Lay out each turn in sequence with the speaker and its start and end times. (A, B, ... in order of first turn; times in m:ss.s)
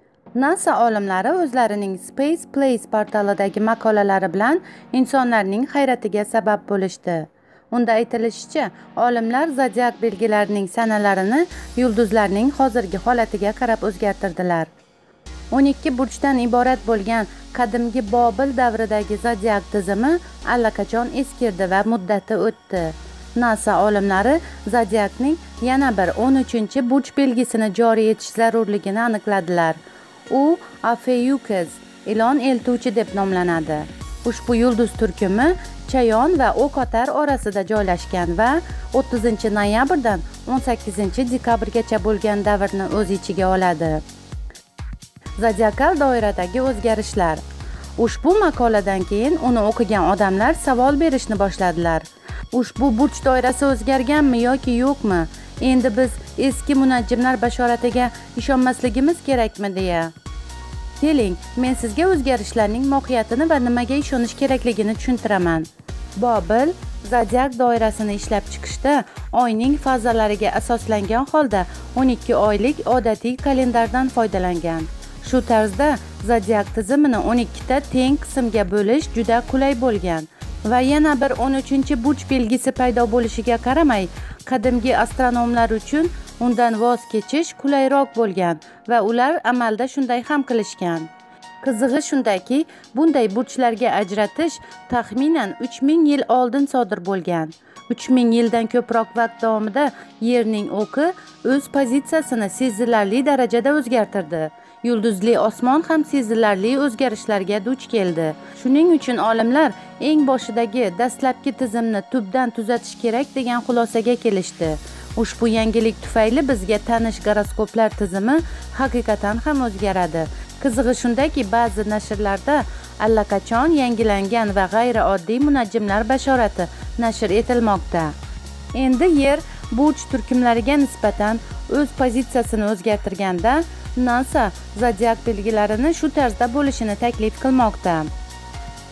0:00.4-0:14.7 A
0:15.5-0:44.0 A
0:45.4-0:47.4 A
0:48.0-1:00.1 A
1:01.0-1:31.1 A
1:31.6-2:08.1 A
2:08.7-2:18.1 A